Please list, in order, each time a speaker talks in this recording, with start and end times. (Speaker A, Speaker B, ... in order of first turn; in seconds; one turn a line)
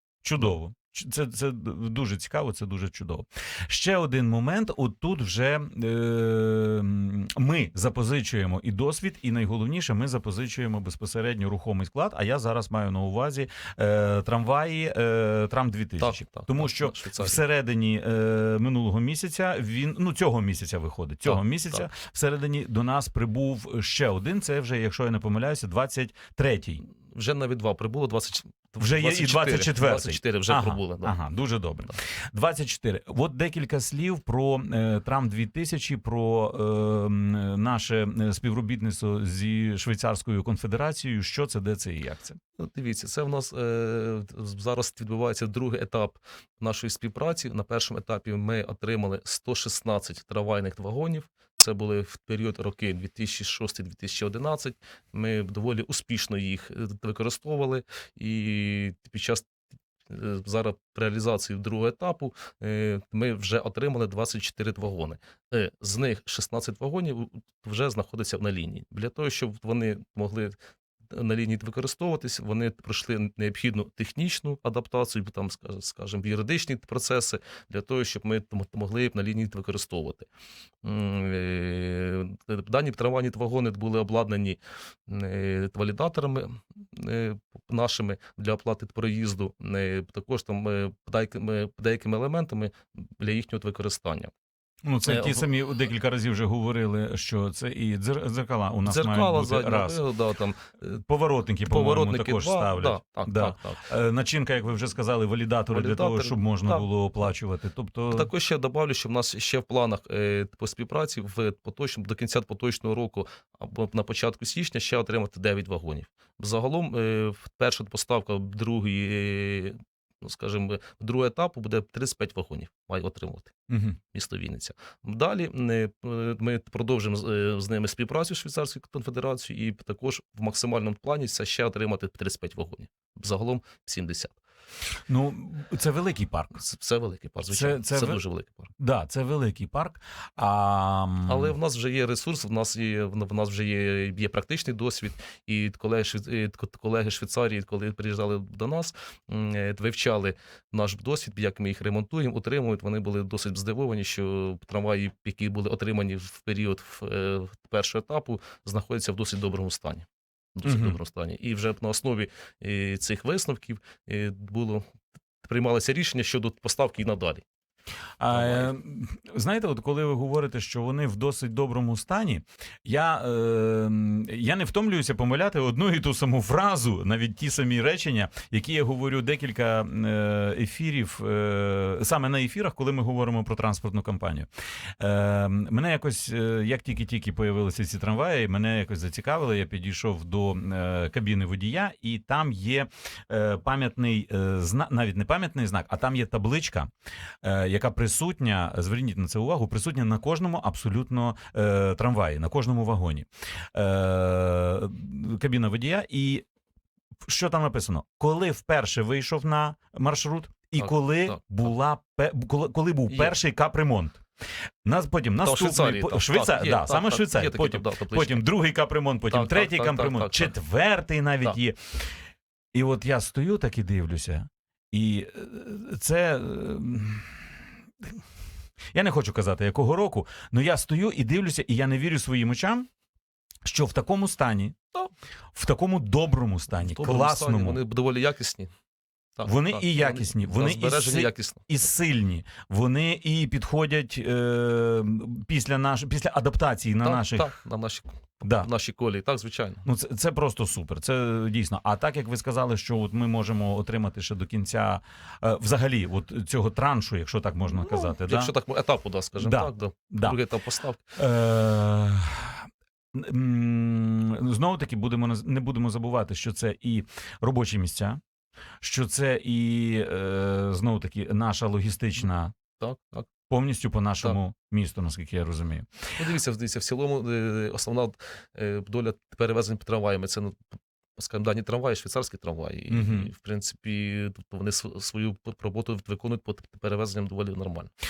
Speaker A: 0.2-26.8
Speaker B: 16.0-17.4
Speaker B: 21.2-21.9
Speaker B: 27.1-31.2
Speaker A: 28.8-42.4
Speaker B: 42.6-59.5
Speaker B: 60.1-70.5
Speaker B: 71.1-80.3
Speaker B: 80.8-94.3
Speaker A: 94.8-100.0
Speaker B: 95.0-95.4
Speaker B: 98.8-101.0
Speaker A: 101.0-108.3
Speaker B: 101.7-103.8
Speaker B: 105.7-106.8
Speaker B: 108.1-123.5
Speaker A: 123.7-124.0
Speaker B: 124.1-134.4
Speaker A: 135.1-136.6
Speaker B: 136.6-138.7
Speaker A: 137.5-138.2
Speaker A: 138.8-141.5
Speaker B: 141.3-164.8
Speaker A: 160.6-161.0
Speaker B: 165.4-167.4
Speaker A: 168.2-184.5
Speaker B: 168.3-168.7
Speaker A: 185.0-196.9
Speaker A: 197.4-206.4
Speaker A: 207.2-214.2
Speaker B: 210.8-211.4
Speaker B: 213.1-213.3
Speaker A: 214.8-222.0
Speaker B: 215.4-218.4
Speaker B: 219.3-220.5
Speaker A: 222.7-227.4
Speaker A: 228.9-232.9
Speaker A: 233.6-234.8
Speaker A: 235.5-237.8
Speaker B: 236.7-238.7
Speaker B: 239.4-241.7
Speaker A: 239.4-247.5
Speaker B: 247.0-249.8
Speaker A: 248.4-248.7
Speaker A: 249.8-258.5
Speaker B: 257.7-261.0
Speaker A: 259.4-260.4
Speaker A: 261.1-268.2
Speaker A: 268.8-272.5
Speaker B: 272.8-273.3
Speaker A: 273.5-276.0
Speaker B: 276.2-280.6
Speaker B: 281.2-287.9
Speaker A: 282.9-283.3